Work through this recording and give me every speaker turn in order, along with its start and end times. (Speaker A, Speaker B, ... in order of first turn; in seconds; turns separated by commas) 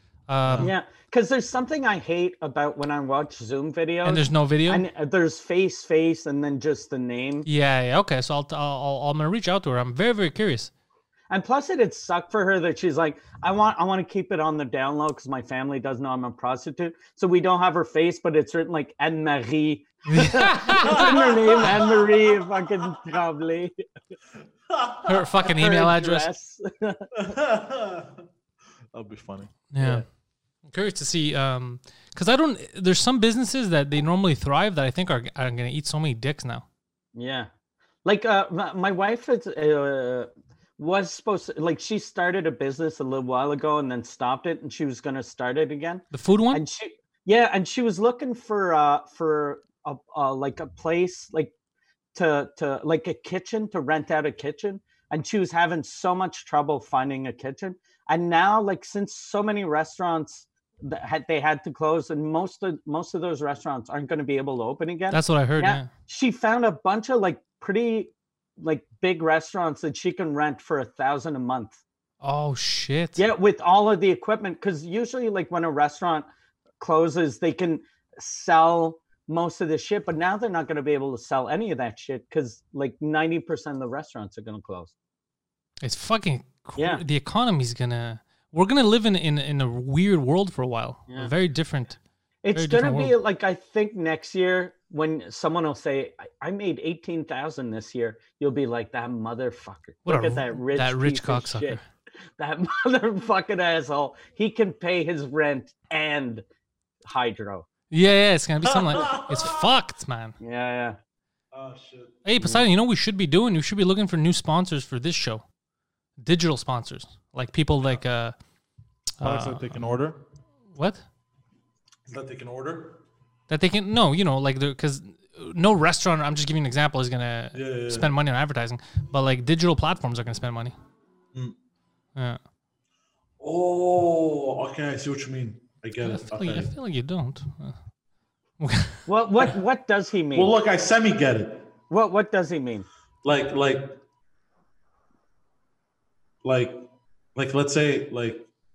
Speaker A: 0.3-0.7, Speaker B: 0.5-0.7, Speaker C: 0.6-7.5, Speaker A: 4.0-4.8, Speaker A: 7.5-10.7, Speaker C: 11.3-23.7, Speaker A: 20.1-21.1, Speaker B: 20.8-22.7, Speaker B: 24.7-25.5, Speaker A: 25.0-26.3, Speaker C: 25.4-27.1, Speaker B: 27.1-28.2, Speaker B: 28.9-29.5, Speaker A: 29.7-30.0, Speaker C: 29.8-30.0, Speaker A: 30.7-36.6, Speaker C: 37.1-37.5, Speaker C: 38.0-51.5, Speaker A: 46.1-46.6, Speaker C: 52.1-71.8, Speaker A: 65.1-65.9, Speaker A: 72.2-73.2, Speaker C: 73.2-76.3, Speaker C: 76.8-84.9, Speaker A: 85.8-92.0, Speaker C: 92.4-101.8, Speaker A: 92.5-93.1, Speaker A: 100.1-101.8, Speaker C: 102.4-106.4, Speaker C: 107.0-107.7, Speaker A: 107.9-110.4, Speaker B: 108.6-109.7, Speaker C: 110.4-111.0, Speaker B: 111.5-112.2, Speaker A: 112.2-115.4, Speaker C: 112.4-112.7, Speaker A: 116.2-118.3, Speaker A: 119.2-119.7, Speaker B: 119.2-120.2, Speaker A: 120.7-121.0, Speaker B: 122.1-123.0, Speaker A: 123.5-130.7, Speaker B: 127.5-128.1, Speaker B: 133.4-136.7, Speaker A: 136.0-137.8, Speaker A: 138.6-139.0, Speaker C: 139.1-140.5, Speaker B: 140.3-141.7, Speaker C: 141.9-142.9, Speaker B: 143.2-144.0, Speaker B: 146.4-148.5